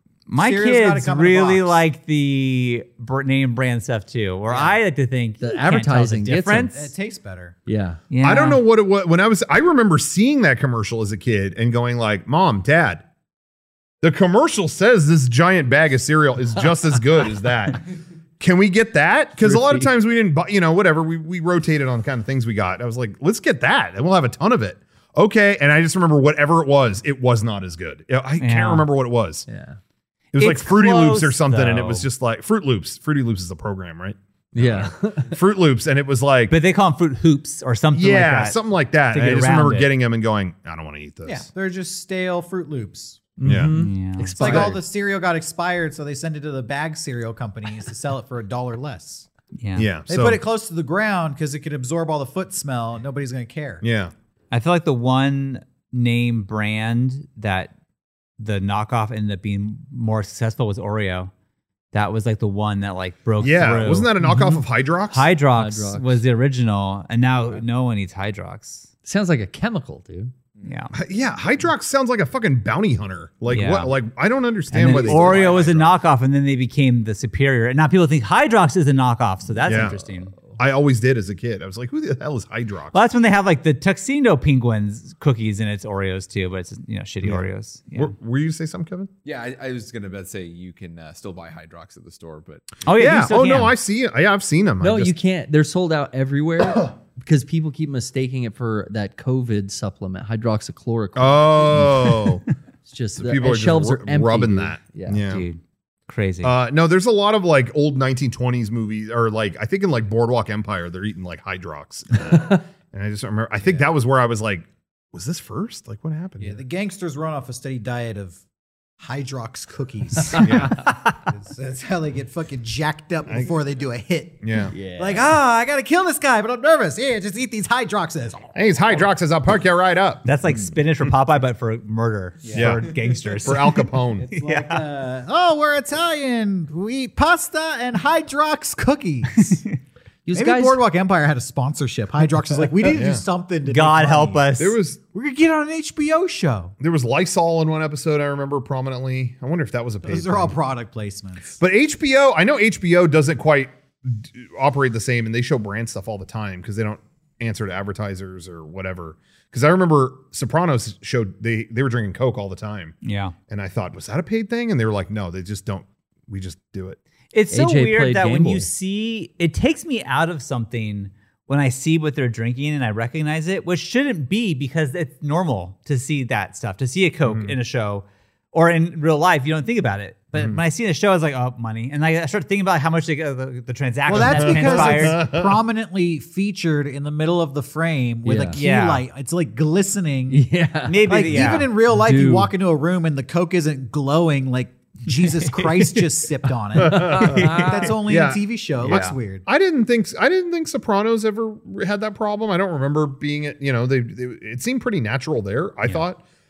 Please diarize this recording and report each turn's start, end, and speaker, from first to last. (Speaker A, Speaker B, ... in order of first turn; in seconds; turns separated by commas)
Speaker A: 0.3-6.8, Speaker B: 0.3-1.8, Speaker C: 5.4-6.9, Speaker B: 6.7-7.5, Speaker C: 7.7-8.0, Speaker A: 8.1-8.6, Speaker D: 8.2-13.0, Speaker D: 14.0-17.8, Speaker D: 18.4-29.4, Speaker C: 19.4-19.9, Speaker A: 28.4-28.9, Speaker C: 29.5-29.8, Speaker A: 30.3-32.1, Speaker D: 30.3-36.5, Speaker C: 34.5-35.4, Speaker A: 36.5-38.6, Speaker D: 37.9-41.5, Speaker A: 39.1-39.9, Speaker B: 41.2-43.2, Speaker C: 43.4-44.8, Speaker D: 43.4-43.8, Speaker A: 43.7-44.4, Speaker B: 44.3-49.3, Speaker D: 44.4-44.8, Speaker A: 49.5-49.9, Speaker D: 49.7-50.4, Speaker B: 50.1-53.8, Speaker D: 53.8-54.1, Speaker A: 54.5-57.7, Speaker A: 58.4-61.3, Speaker A: 61.9-64.4, Speaker D: 63.4-65.3, Speaker C: 64.2-64.6, Speaker A: 65.1-68.9, Speaker C: 65.5-66.2, Speaker C: 69.0-70.3, Speaker A: 70.6-70.9, Speaker D: 70.9-75.9, Speaker A: 73.5-73.9, Speaker A: 74.7-80.3, Speaker C: 74.8-75.2, Speaker E: 74.9-75.4, Speaker D: 79.6-80.0, Speaker D: 80.5-83.0, Speaker A: 82.9-88.1, Speaker D: 87.2-89.1, Speaker E: 89.2-92.8, Speaker A: 92.8-93.7, Speaker D: 92.9-95.1, Speaker C: 94.8-102.2, Speaker D: 101.2-102.4, Speaker C: 102.8-105.2, Speaker D: 103.2-105.5, Speaker A: 105.3-106.5, Speaker D: 106.4-116.6, Speaker B: 116.4-118.4, Speaker B: 119.0-128.5, Speaker D: 120.4-120.9, Speaker D: 124.4-124.7, Speaker C: 124.7-125.2, Speaker D: 128.5-130.3, Speaker A: 130.2-134.8, Speaker D: 132.5-132.9, Speaker D: 133.4-134.3, Speaker B: 134.2-139.6, Speaker A: 139.3-139.8, Speaker C: 140.2-140.8, Speaker B: 140.3-144.5, Speaker D: 142.9-143.2, Speaker A: 143.6-144.7, Speaker D: 144.6-145.0, Speaker B: 145.1-146.7, Speaker D: 146.8-150.5, Speaker B: 150.0-151.6, Speaker D: 151.6-162.9, Speaker A: 163.0-163.3, Speaker D: 163.5-167.0, Speaker A: 167.3-185.2, Speaker C: 167.5-168.7, Speaker D: 177.3-177.5, Speaker D: 180.3-180.6, Speaker B: 184.1-190.4, Speaker D: 184.1-185.6, Speaker C: 188.2-188.6, Speaker A: 188.6-189.0, Speaker C: 190.3-192.5, Speaker A: 190.8-191.7, Speaker B: 191.1-199.4, Speaker A: 195.2-196.0, Speaker D: 196.8-206.2, Speaker C: 196.9-197.7, Speaker A: 197.1-197.9, Speaker A: 198.9-199.2